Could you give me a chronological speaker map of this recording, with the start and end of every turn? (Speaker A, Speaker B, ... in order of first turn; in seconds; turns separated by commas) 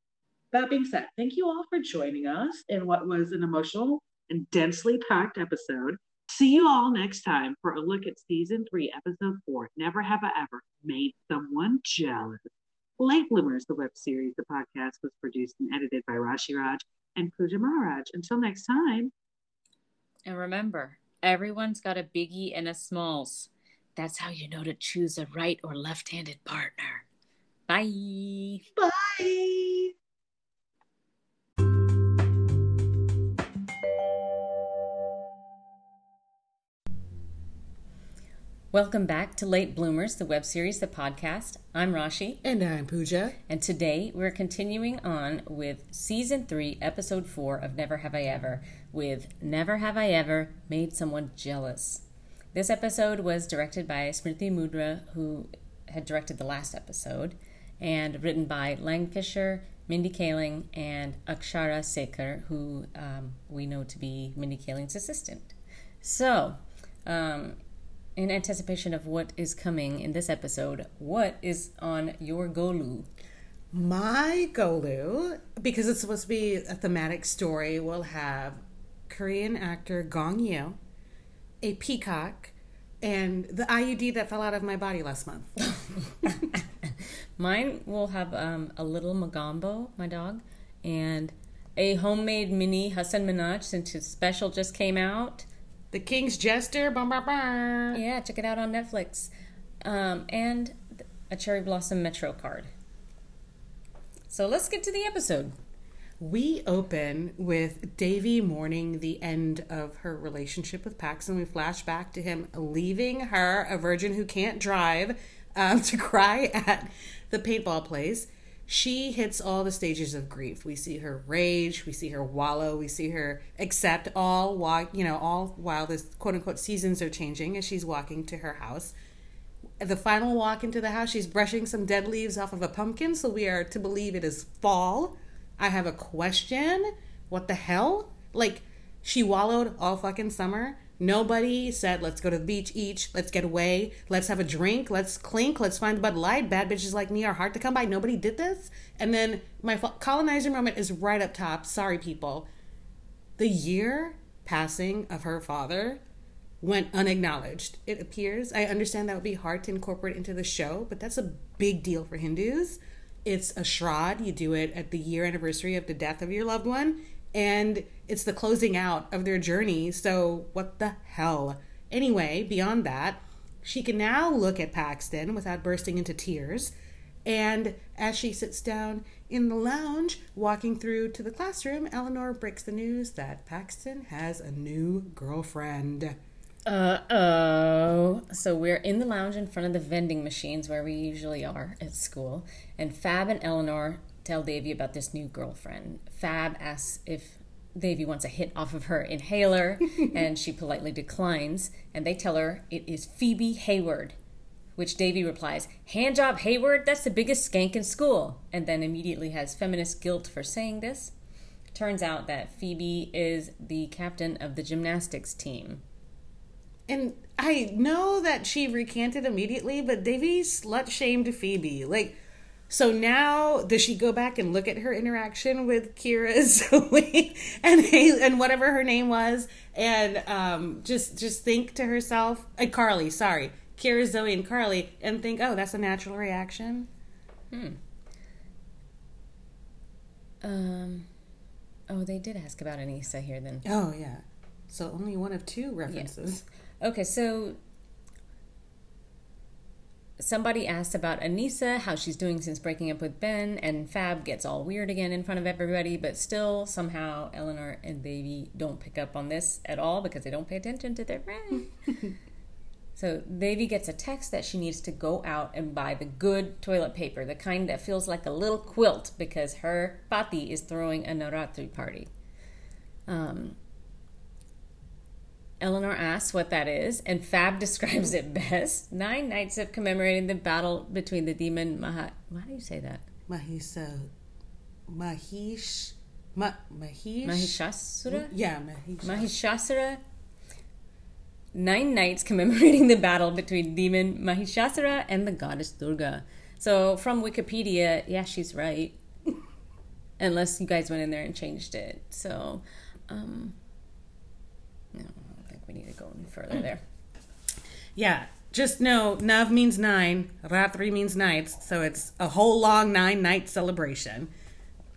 Speaker A: 0.5-19.1, Speaker B: 20.2-27.0, Speaker B: 27.7-28.6, Speaker A: 28.8-29.9, Speaker B: 38.7-42.4, Speaker C: 42.4-43.4, Speaker B: 43.5-52.0, Speaker B: 52.5-65.5, Speaker B: 66.0-67.6, Speaker B: 68.2-73.1, Speaker C: 73.7-80.8, Speaker C: 81.6-85.5, Speaker B: 87.4-95.5, Speaker C: 95.9-98.0, Speaker B: 97.9-99.3, Speaker B: 99.8-100.8, Speaker B: 101.3-102.7, Speaker B: 104.3-105.5, Speaker C: 106.2-128.9, Speaker C: 129.8-152.5, Speaker C: 153.4-156.0, Speaker C: 156.6-176.7, Speaker C: 177.2-186.2, Speaker B: 186.7-204.1, Speaker B: 204.8-211.1, Speaker B: 211.7-215.8, Speaker C: 216.9-222.2, Speaker C: 222.7-236.9, Speaker B: 237.5-237.8, Speaker B: 240.4-241.1, Speaker B: 241.9-243.6, Speaker C: 243.6-246.4, Speaker B: 246.8-247.6, Speaker B: 250.2-261.6, Speaker B: 263.0-272.1, Speaker B: 273.1-273.6, Speaker B: 275.6-283.0, Speaker C: 283.3-284.1, Speaker C: 284.9-289.3, Speaker B: 287.2-288.3, Speaker B: 289.0-290.0, Speaker B: 291.5-298.9, Speaker B: 300.2-303.5, Speaker B: 304.9-306.8, Speaker C: 307.9-314.3